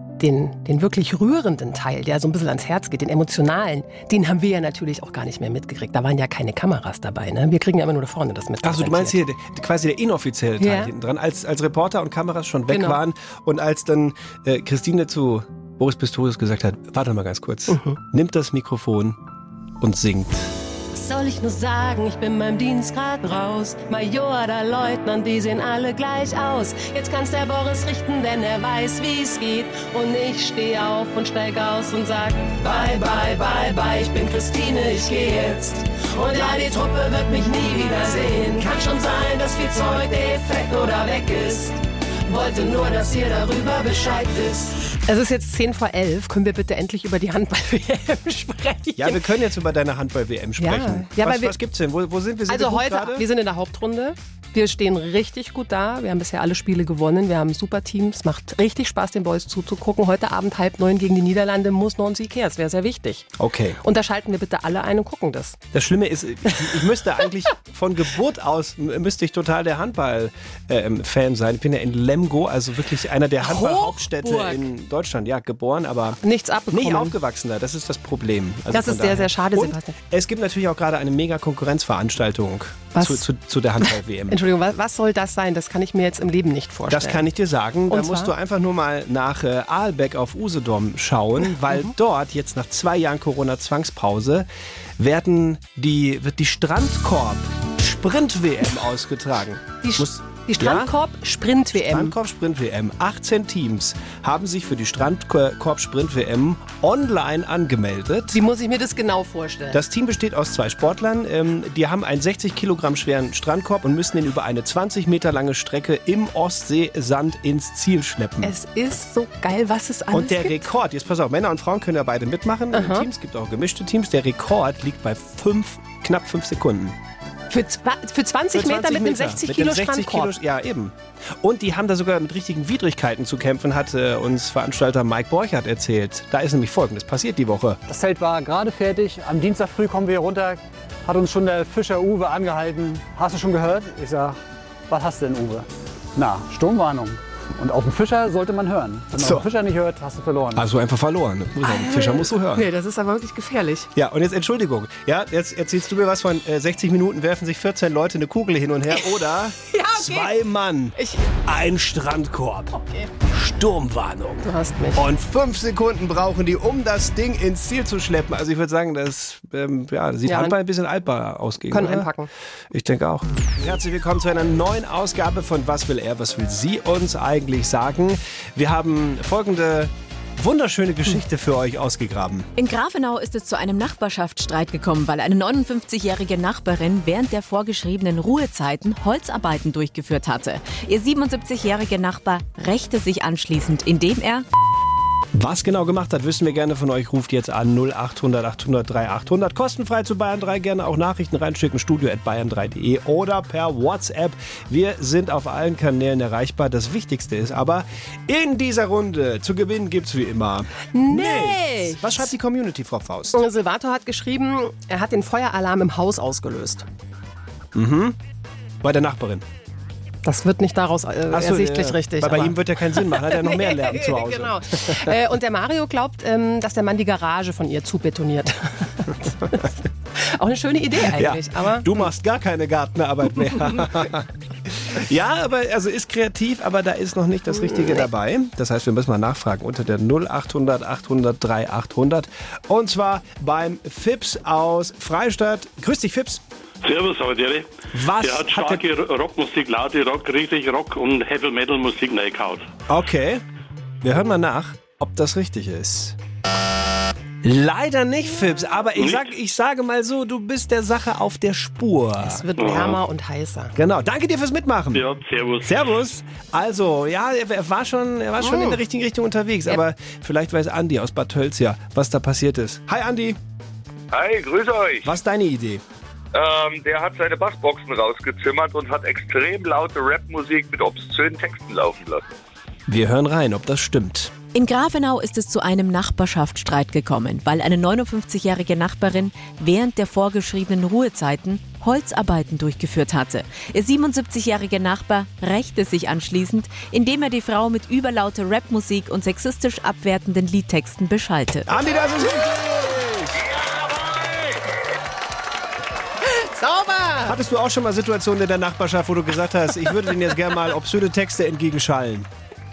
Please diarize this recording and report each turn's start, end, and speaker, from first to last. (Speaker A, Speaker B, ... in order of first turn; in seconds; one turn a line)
Speaker A: 0.2-9.2
Speaker B: 8.6-19.2
Speaker A: 10.6-10.9
Speaker A: 12.7-13.0
Speaker A: 17.7-18.0
Speaker B: 19.8-20.5
Speaker A: 20.9-49.2
Speaker B: 49.0-53.2
Speaker A: 50.6-51.6
Speaker A: 52.5-63.3
Speaker B: 63.4-63.8
Speaker A: 63.8-65.6
Speaker B: 65.7-76.2
Speaker A: 73.4-74.7
Speaker A: 76.2-77.2
Speaker B: 76.7-84.4
Speaker A: 78.7-80.0
Speaker A: 83.0-83.2
Speaker A: 84.3-87.3
Speaker B: 86.9-100.9
Speaker A: 87.9-88.3
Speaker A: 99.8-102.2
Speaker B: 101.8-108.4
Speaker A: 108.3-109.8
Speaker B: 109.7-118.5
Speaker A: 118.4-120.7
Speaker B: 120.1-127.0
Speaker A: 122.7-123.1
Speaker A: 127.5-130.3
Speaker B: 128.5-137.8
Speaker C: 137.9-150.7
Speaker B: 149.2-149.4
Speaker B: 150.6-152.7
Speaker A: 151.6-153.9
Speaker B: 153.9-162.7
Speaker A: 158.9-160.4
Speaker A: 161.0-161.3
Speaker A: 162.7-163.1
Speaker B: 163.3-172.1
Speaker A: 164.4-165.1
Speaker A: 170.3-170.6
Speaker A: 171.7-172.3
Speaker B: 172.7-182.5
Speaker D: 182.6-194.5
Speaker B: 195.3-213.4
Speaker A: 210.9-212.3
Speaker A: 213.3-216.9
Speaker B: 217.7-218.2
Speaker B: 218.8-219.4
Speaker A: 220.2-232.1
Speaker B: 221.3-225.2
Speaker B: 231.0-246.4
Speaker A: 237.7-238.0
Speaker E: 246.8-252.7
Speaker B: 247.9-248.9
Speaker B: 252.9-253.4
Speaker B: 254.0-256.2
Speaker B: 257.4-262.4
Speaker E: 259.0-259.3
Speaker A: 262.2-263.7
Speaker E: 262.7-262.9
Speaker B: 263.8-265.1
Speaker E: 264.9-265.8
Speaker B: 265.6-273.4
Speaker A: 268.4-268.8
Speaker F: 274.1-275.1
Speaker B: 275.0-275.8
Speaker F: 276.3-282.2
Speaker B: 282.9-284.4
Speaker D: 284.5-301.7
Speaker B: 301.7-303.4
Speaker F: 303.3-304.6
Speaker A: 306.3-307.4
Speaker B: 307.3-312.3